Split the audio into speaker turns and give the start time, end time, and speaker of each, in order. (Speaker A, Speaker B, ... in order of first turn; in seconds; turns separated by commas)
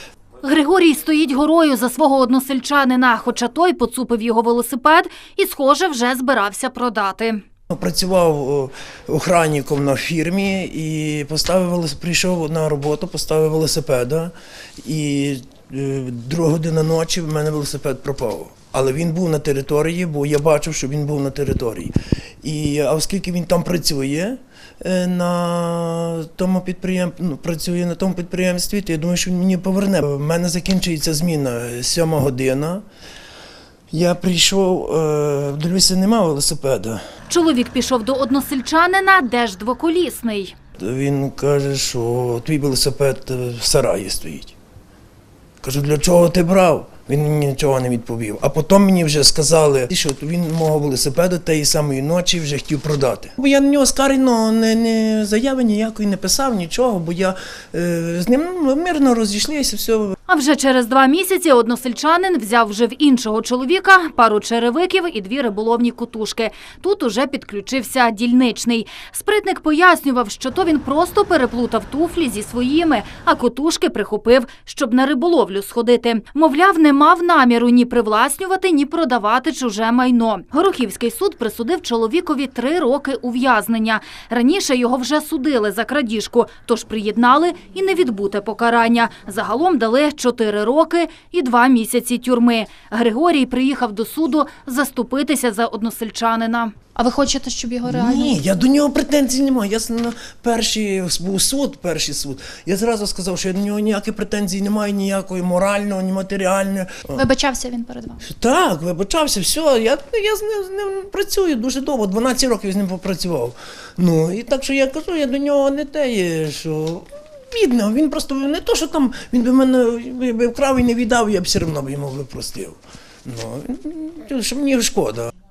Speaker A: 0.4-7.4, Speaker B: 7.7-32.8, Speaker B: 33.9-37.0, Speaker A: 37.3-40.5, Speaker B: 40.8-44.6, Speaker B: 45.6-60.2, Speaker A: 60.3-96.9, Speaker C: 97.0-98.4, Speaker B: 97.8-107.2, Speaker C: 107.2-108.2, Speaker B: 108.2-125.3